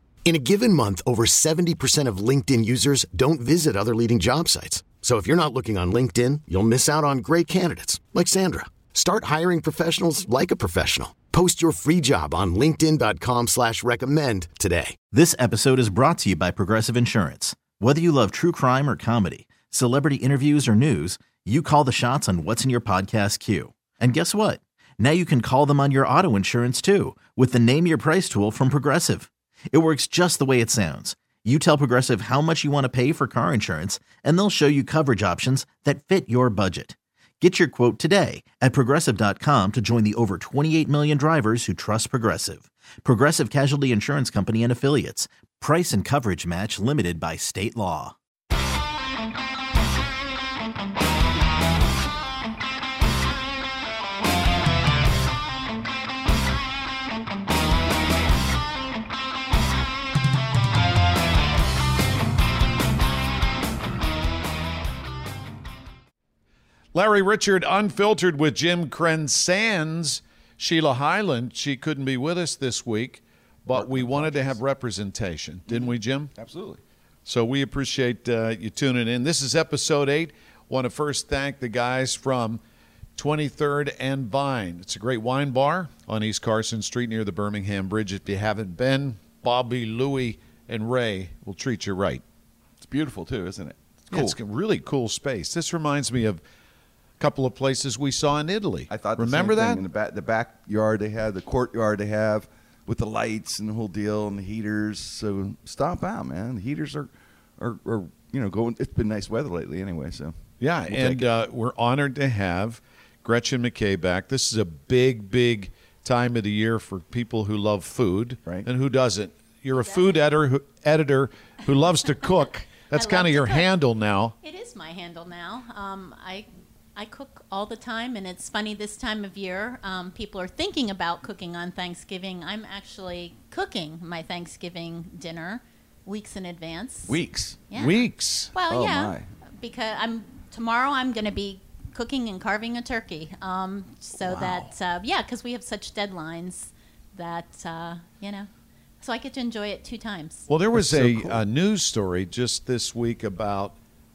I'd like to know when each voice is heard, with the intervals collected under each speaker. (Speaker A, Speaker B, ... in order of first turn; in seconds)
Speaker A: 0.3-15.0
Speaker B: 15.1-48.1
Speaker C: 66.9-76.3, 77.3-82.6, 83.2-92.2, 94.1-96.4, 97.2-99.8, 110.6-124.4, 137.7-138.5, 150.5-153.8
Speaker D: 73.7-74.6, 75.7-76.8, 92.8-94.4, 98.9-110.3, 110.9-111.3, 137.1-137.6, 138.7-139.3, 144.1-144.7, 150.7-151.4
Speaker E: 119.8-120.1, 122.9-123.7, 124.4-137.2, 137.7-150.5